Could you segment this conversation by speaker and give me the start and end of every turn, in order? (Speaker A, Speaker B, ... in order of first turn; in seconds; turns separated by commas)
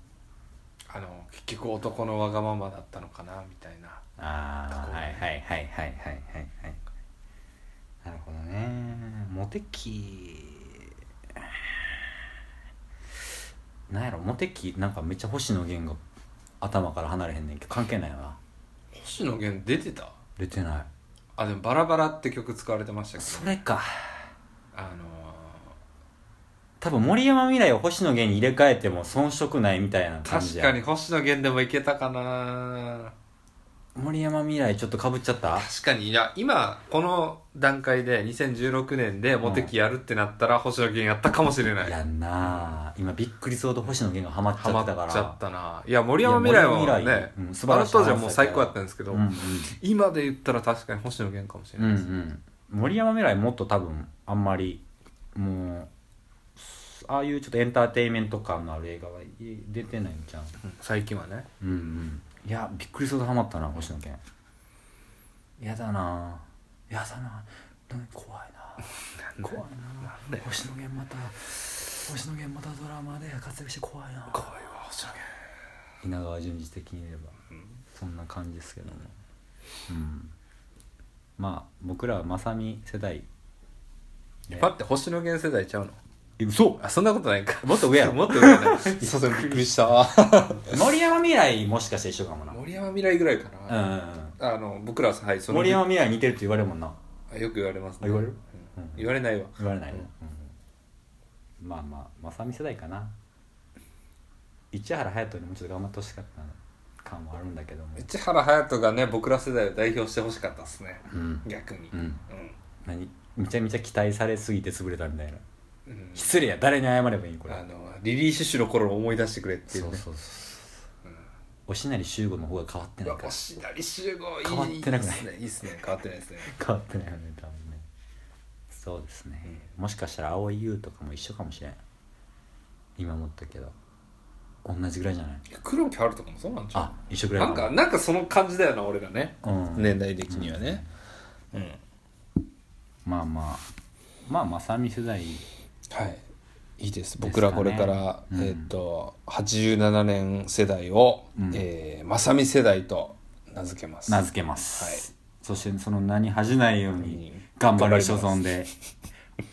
Speaker A: 0.9-4.0, Speaker B: 4.2-6.8, Speaker A: 4.7-5.2, Speaker B: 8.0-11.9, Speaker B: 13.9-16.0, Speaker B: 16.6-18.4, Speaker A: 18.9-20.2, Speaker B: 20.4-20.9, Speaker A: 21.4-23.6, Speaker B: 23.2-24.1, Speaker A: 24.7-25.8, Speaker B: 26.8-30.8, Speaker A: 30.2-33.1, Speaker B: 34.0-35.7, Speaker A: 35.5-42.8, Speaker B: 39.4-39.7, Speaker B: 41.8-45.4, Speaker A: 44.5-52.1, Speaker B: 46.2-49.7, Speaker B: 51.8-54.8, Speaker B: 55.4-55.9, Speaker B: 56.6-60.6, Speaker A: 60.6-61.5, Speaker B: 61.6-64.2, Speaker B: 65.6-74.5, Speaker A: 69.2-70.5, Speaker A: 74.3-75.3, Speaker B: 76.0-77.4, Speaker B: 77.9-79.1, Speaker B: 79.9-80.3, Speaker B: 81.4-83.3, Speaker A: 84.5-86.0, Speaker B: 86.4-86.8, Speaker A: 86.8-90.8, Speaker B: 87.6-89.8, Speaker B: 90.7-92.6, Speaker A: 92.5-95.9, Speaker B: 93.7-94.4, Speaker B: 95.5-97.0, Speaker A: 97.3-100.1, Speaker B: 98.0-100.5, Speaker B: 101.6-103.2, Speaker B: 104.7-108.1, Speaker A: 108.0-112.6, Speaker B: 111.1-112.2, Speaker B: 112.8-115.4, Speaker A: 115.9-116.4, Speaker B: 116.2-117.6, Speaker A: 117.5-120.0, Speaker B: 119.7-120.7, Speaker B: 121.7-123.4, Speaker A: 123.0-126.5, Speaker B: 124.4-125.3, Speaker B: 126.4-127.9, Speaker B: 128.7-131.8, Speaker B: 133.0-133.7, Speaker B: 134.6-135.4, Speaker A: 135.5-140.8, Speaker B: 136.7-137.8, Speaker B: 139.4-140.9, Speaker A: 141.5-141.8, Speaker B: 143.1-143.7, Speaker B: 144.3-145.5, Speaker A: 145.9-146.2, Speaker A: 146.8-154.2, Speaker B: 147.2-148.7, Speaker B: 151.4-151.7, Speaker B: 154.1-158.7, Speaker A: 154.8-155.1, Speaker A: 157.0-158.5